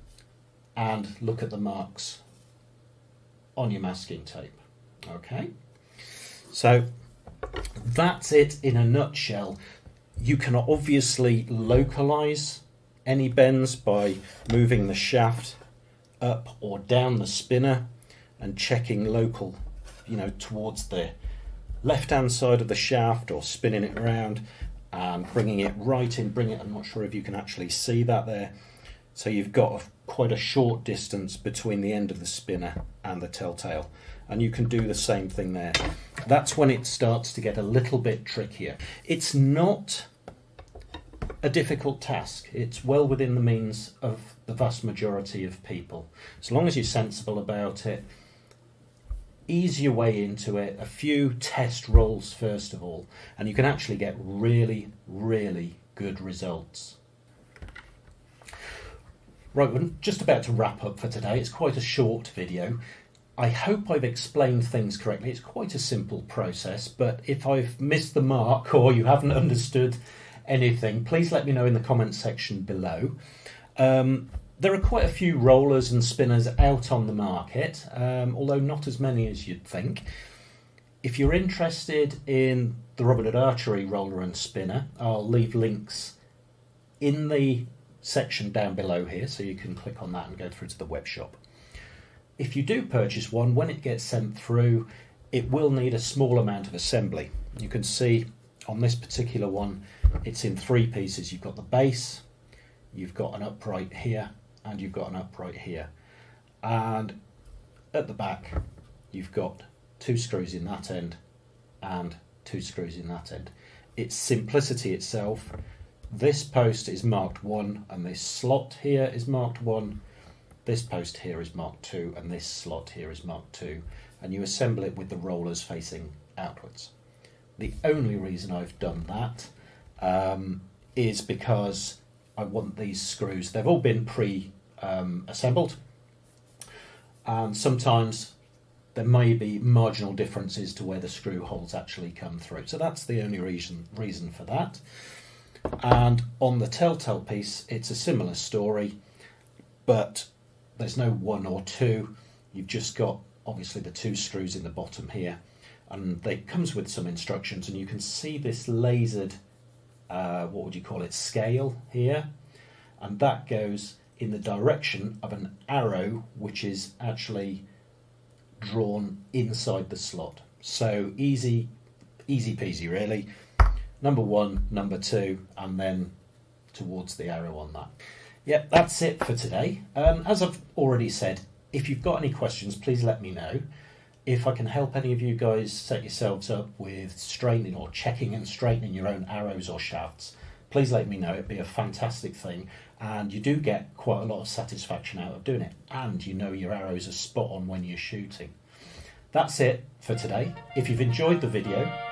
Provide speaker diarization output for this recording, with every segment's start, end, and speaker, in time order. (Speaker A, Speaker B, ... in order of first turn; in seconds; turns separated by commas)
Speaker A: 0.8-2.2, Speaker A: 3.5-5.5, Speaker A: 6.5-6.8, Speaker A: 7.8-9.6, Speaker A: 10.2-15.6, Speaker A: 16.2-17.8, Speaker A: 18.4-21.1, Speaker A: 21.8-28.5, Speaker A: 29.1-40.1, Speaker A: 41.4-48.0, Speaker A: 49.5-57.0, Speaker A: 59.5-62.8, Speaker A: 63.4-73.2, Speaker A: 73.8-80.0, Speaker A: 81.0-86.1, Speaker A: 87.0-91.4, Speaker A: 92.4-102.2, Speaker A: 102.9-105.9, Speaker A: 106.6-107.2, Speaker A: 107.9-108.6, Speaker A: 109.1-111.2, Speaker A: 111.8-115.5, Speaker A: 116.1-120.0, Speaker A: 120.7-126.9, Speaker A: 127.6-135.8, Speaker A: 137.2-138.3, Speaker A: 138.9-144.8, Speaker A: 145.8-148.9, Speaker A: 149.8-159.3, Speaker A: 160.1-162.3, Speaker A: 163.0-167.6, Speaker A: 168.6-171.7, Speaker A: 172.3-173.2, Speaker A: 174.0-176.1, Speaker A: 176.7-177.9, Speaker A: 178.4-183.6, Speaker A: 184.2-198.5, Speaker A: 199.3-201.9